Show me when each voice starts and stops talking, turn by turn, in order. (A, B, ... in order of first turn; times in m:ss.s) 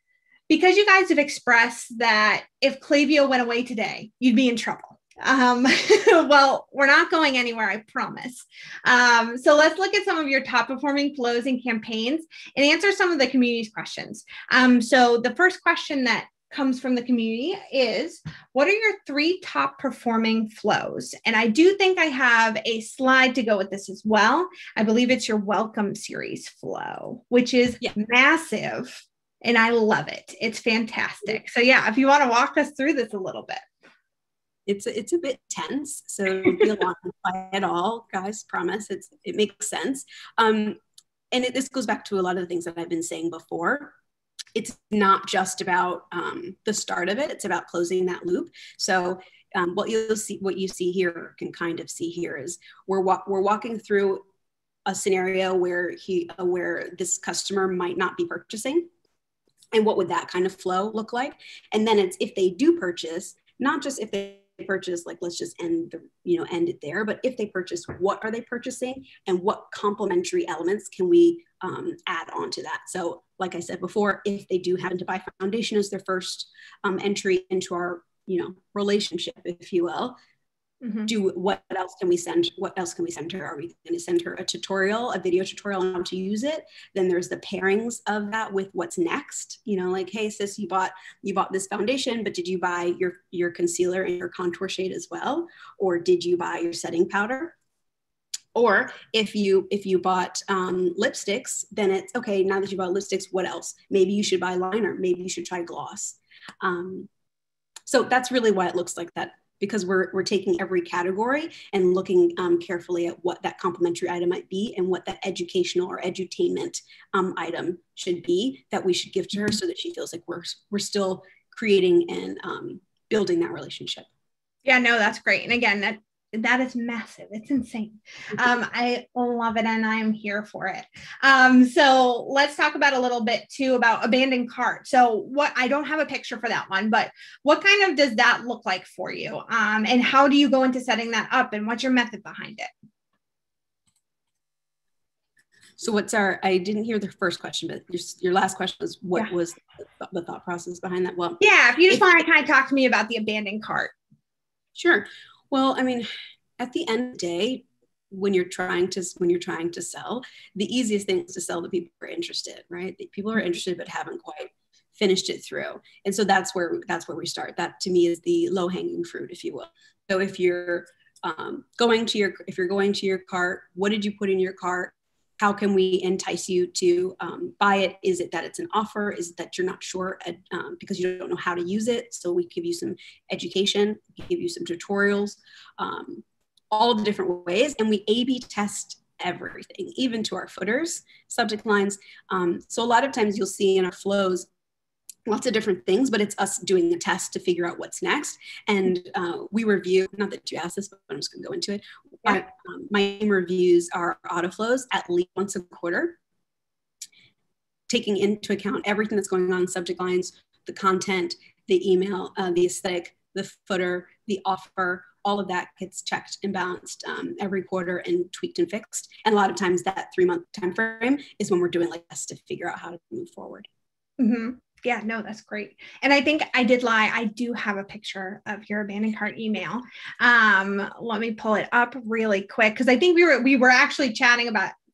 0:00.5-0:33.6 A
0:34.7-0:40.8 B
0:41.3-0:43.9 B
0:44.6-0:54.2 B
0:54.9-0:58.9 B
0:59.7-1:20.2 B
1:20.8-1:21.1 A
1:21.1-1:37.5 B
1:38.6-1:47.1 B
1:47.9-2:04.1 B
2:04.6-2:22.7 A
2:25.8-2:32.1 B
2:31.4-2:33.9 A
2:34.8-3:14.5 B
3:15.2-3:26.2 B
3:27.9-3:43.6 B
3:44.2-3:54.8 A